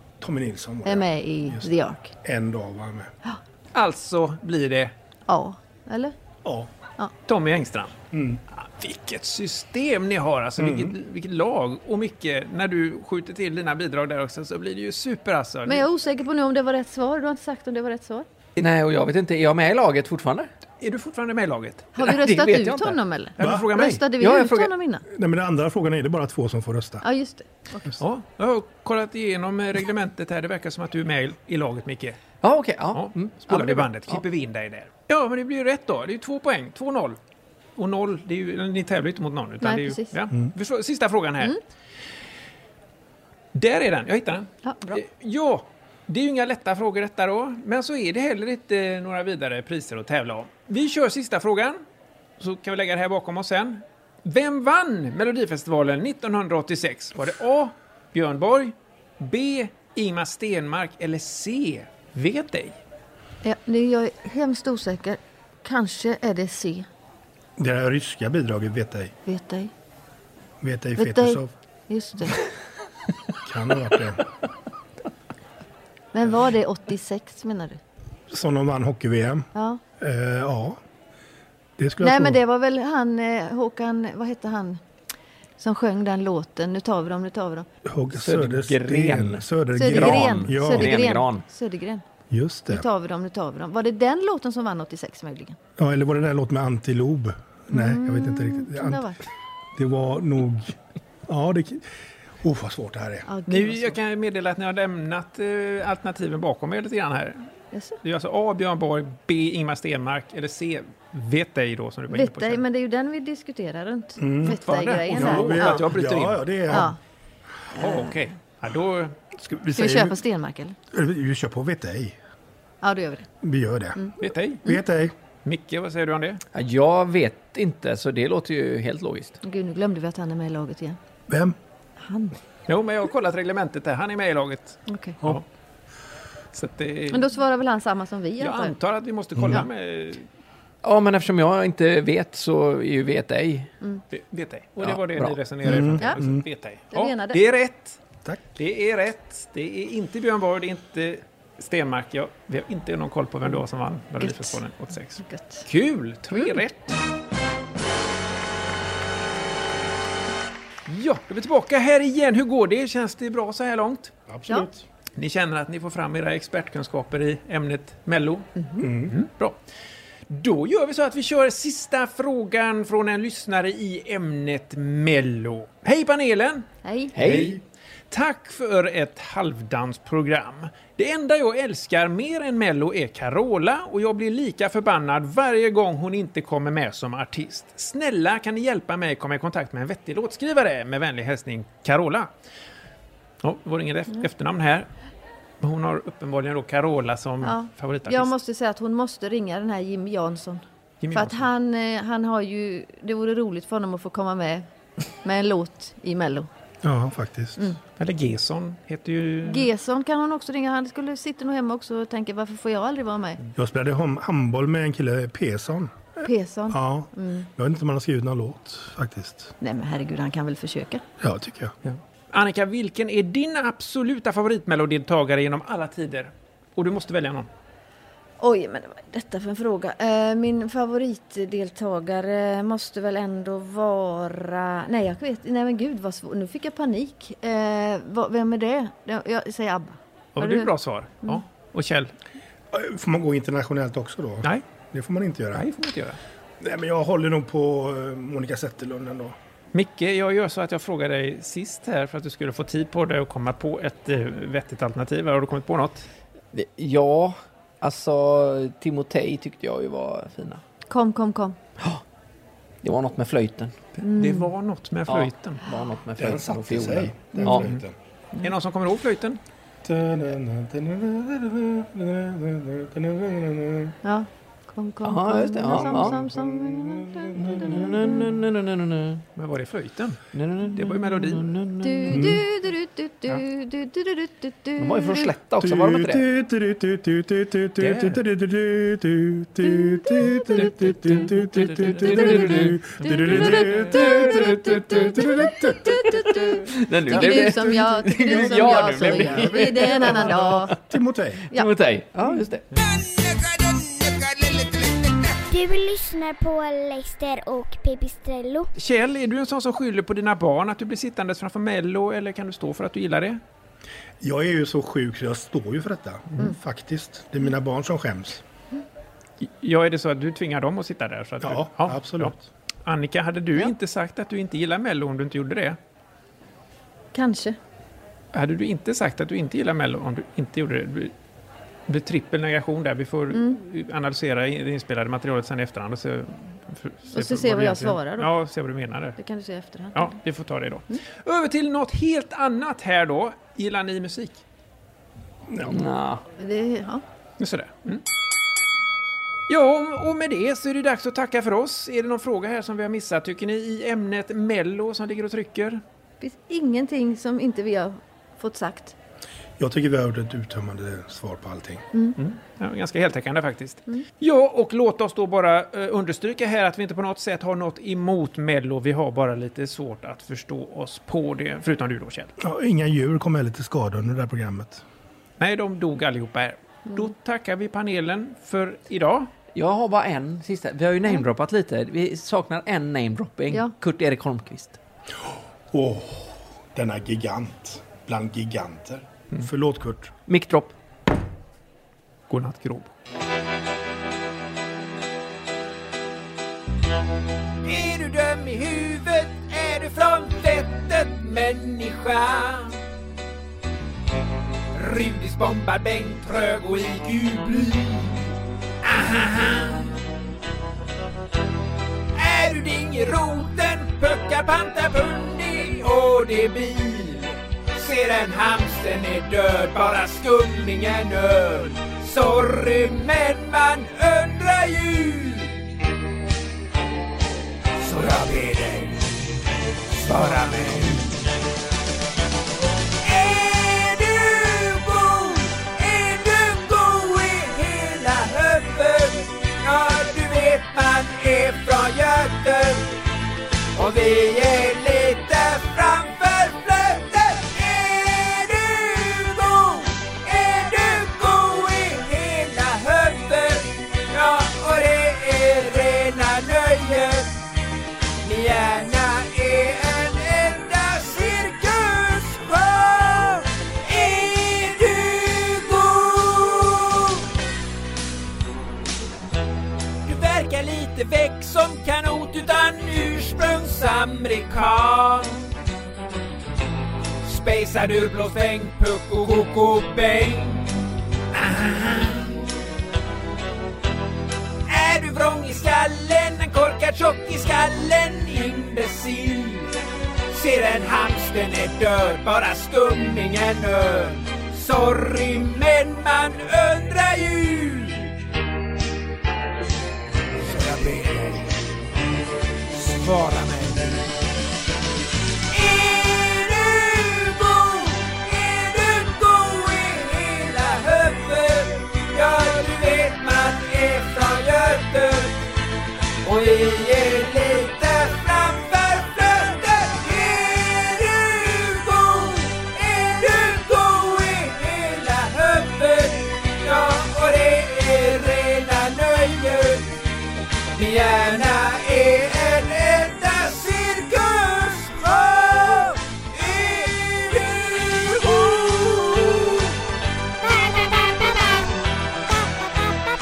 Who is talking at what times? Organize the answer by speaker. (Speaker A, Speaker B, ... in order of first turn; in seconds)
Speaker A: 0.2-1.7, 2.2-3.1, 6.4-6.7, 8.1-8.4, 10.6-10.9, 23.4-23.7, 25.1-27.0, 67.6-69.1, 70.6-71.5, 73.4-74.2, 78.3-80.8, 81.8-82.4, 87.8-90.9, 92.3-92.8, 95.8-99.0, 99.7-100.7, 101.3-101.9, 102.4-103.3, 114.2-116.9, 119.3-120.2, 120.9-122.2, 123.4-124.1, 124.6-125.1, 131.3-131.6, 139.3-139.6, 145.6-146.4, 164.3-164.8, 168.8-169.1, 177.2-177.6, 206.8-207.7, 213.6-216.1, 216.7-219.5, 221.2-221.7, 242.7-245.6, 246.6-249.3, 266.2-267.9, 269.8-273.9, 275.7-278.2, 282.1-282.4, 285.6-296.5, 297.1-301.4, 314.2-318.4, 321.4-322.4, 345.5-345.8, 359.6-361.8, 372.4-374.8, 385.7-390.1
Speaker B: 0.8-2.1, 5.3-6.1, 15.7-18.2, 21.9-25.0, 27.0-27.8, 39.6-40.1, 44.6-45.0, 63.4-66.9, 69.2-69.7, 71.0-72.4, 76.1-77.8, 79.5-79.8, 82.0-84.8, 85.6-87.7, 89.7-92.0, 92.7-95.6, 97.7-99.2, 103.3-104.0, 107.7-108.0, 112.1-115.8, 116.7-117.0, 117.7-118.2, 119.8-120.8, 122.8-123.3, 129.4-131.0, 132.0-132.4, 134.9-135.2, 137.1-138.7, 146.9-147.4, 154.2-154.6, 155.2-155.7, 168.6-168.8, 176.8-177.1, 197.4-204.7, 205.2-206.5, 209.4-213.4, 216.2-217.5, 219.6-221.0, 228.4-240.7, 260.9-261.6, 264.0-264.5, 274.0-278.1, 281.8-285.3, 289.7-290.6, 292.1-300.7, 327.1-327.6, 333.3-333.6, 337.1-338.3, 339.2-340.1, 346.4-347.0, 356.2-358.9
Speaker C: 3.7-4.9, 7.3-7.9, 8.5-15.9, 20.8-22.0, 23.4-24.0, 28.0-32.2, 32.9-37.2, 37.8-41.5, 43.5-51.8, 52.4-62.8, 103.5-107.4, 108.0-112.6, 114.4-116.7, 117.8-119.1, 124.2-124.6, 125.4-126.4, 132.7-135.4, 136.5-137.3, 138.4-140.2, 144.1-148.0, 148.6-156.9, 160.9-164.1, 165.2-168.5, 169.0-169.6, 170.3-176.7, 177.2-177.6, 178.1-192.3, 193.4-194.9, 195.6-198.3, 201.0-201.5, 208.0-209.7, 221.8-227.5, 240.4-242.1, 245.5-246.2, 249.7-256.1, 264.0-265.6, 267.5-267.8, 268.4-269.4, 279.4-281.5, 287.8-288.1, 308.8-313.4, 319.4-322.3, 322.8-325.8, 328.3-331.1, 331.9-339.2, 339.9-344.4, 347.4-348.0, 349.5-355.8, 362.2-372.3, 375.4-379.3, 392.3-392.9, 400.2-401.1, 401.9-402.2, 405.3-407.7, 408.9-409.2, 412.8-417.1, 417.8-421.7, 422.5-424.9, 428.1-428.7, 430.1-431.0, 436.4-436.9, 438.3-438.9, 446.5-447.0, 452.8-453.3, 470.1-470.5, 471.0-474.7, 477.3-480.4, 481.4-481.7, 486.0-489.4, 491.8-493.4, 494.8-496.8, 497.5-497.9, 500.9-501.3, 502.8-503.7, 509.0-509.5, 510.7-511.5, 512.1-512.5, 513.0-515.0, 516.3-517.0, 517.7-519.5, 521.8-522.1, 522.8-524.3, 525.4-525.9, 526.6-527.3, 528.4-528.7, 533.0-533.6
Speaker D: 18.6-20.5, 22.0-23.0, 24.0-24.7, 32.4-34.2, 88.1-91.4, 126.5-129.3, 140.8-143.7, 144.8-145.4, 177.2-177.5, 256.5-260.6, 262.8-263.8, 265.1-267.7, 275.0-276.1, 277.7-279.2, 280.3-282.3, 284.8-286.2, 292.3-292.7, 293.8-295.2, 296.7-300.6, 301.5-302.6, 345.7-346.2, 379.5-384.8, 390.3-390.7, 430.1-430.4
Speaker E: 305.5-308.7
Speaker F: 397.7-402.7, 404.8-407.9, 409.2-409.7, 412.3-417.2, 417.8-425.4, 427.9-428.9, 433.1-442.8, 443.8-457.3, 458.2-466.9, 470.1-475.3, 477.2-480.5, 481.7-482.1, 484.7-489.6, 490.3-497.7, 500.5-501.4, 503.2-503.8, 505.6-515.3, 516.2-529.8, 530.8-539.4